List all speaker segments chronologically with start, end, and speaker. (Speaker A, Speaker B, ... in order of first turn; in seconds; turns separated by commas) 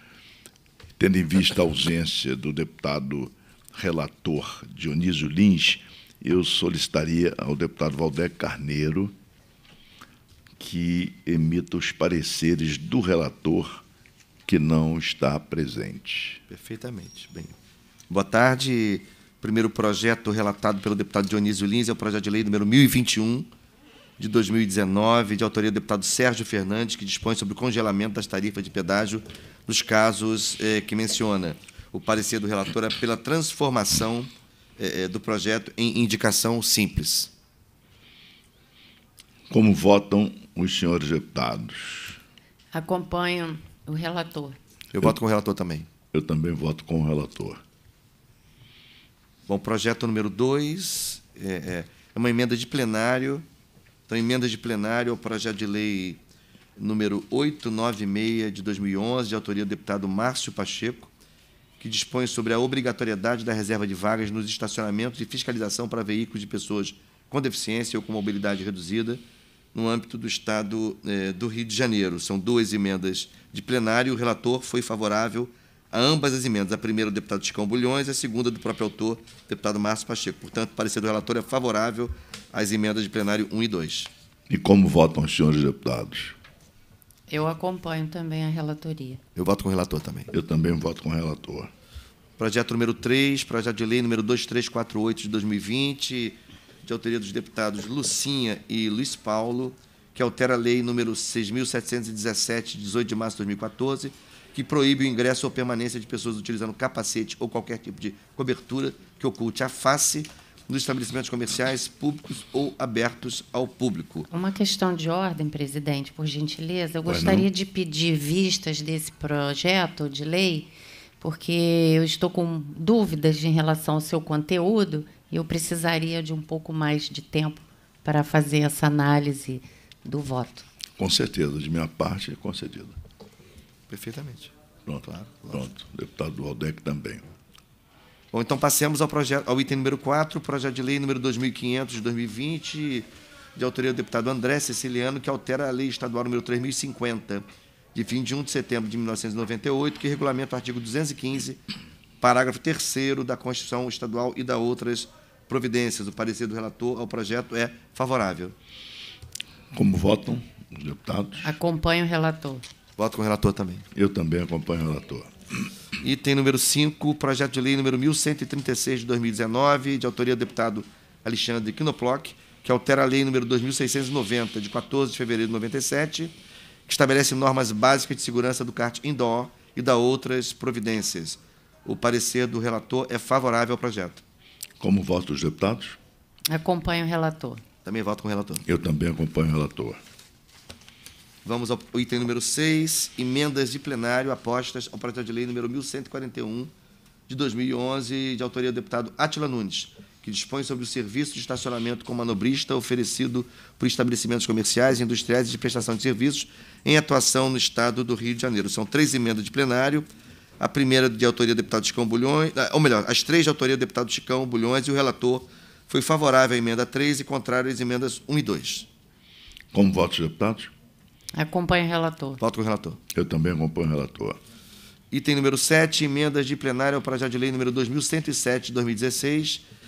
Speaker A: 1.0-9.2, Speaker A: 10.6-13.8, Speaker A: 14.4-16.4, Speaker B: 16.5-17.6, Speaker B: 18.1-23.5, Speaker B: 24.2-37.3, Speaker A: 39.5-42.2, Speaker C: 42.7-44.6, Speaker B: 44.9-45.9, Speaker A: 46.1-47.6, Speaker B: 49.5-53.4, Speaker B: 54.1-56.2, Speaker B: 56.8-61.1, Speaker B: 61.8-69.2, Speaker B: 69.7-84.1, Speaker A: 84.5-86.3, Speaker C: 87.3-89.2, Speaker B: 89.3-90.3, Speaker A: 90.3-91.7, Speaker B: 92.4-114.3, Speaker C: 114.3-120.7, Speaker A: 117.0-117.5, Speaker C: 121.2-130.7, Speaker A: 131.0-132.9, Speaker B: 133.9-134.5, Speaker A: 134.8-137.2, Speaker B: 135.1-135.7, Speaker B: 138.3-151.6, Speaker B: 152.2-158.5, Speaker A: 159.7-161.5, Speaker C: 161.4-162.7, Speaker B: 163.0-163.8, Speaker A: 163.9-165.7, Speaker B: 166.0-176.3, Speaker B: 176.9-184.2, Speaker A: 184.8-186.0, Speaker C: 186.5-187.6, Speaker B: 187.8-188.6, Speaker A: 188.6-190.0, Speaker B: 191.4-196.7, Speaker B: 197.3-210.1, Speaker B: 210.6-218.9, Speaker A: 219.7-220.7, Speaker C: 221.3-222.4, Speaker B: 222.4-223.0, Speaker A: 223.1-224.4, Speaker B: 225.1-229.6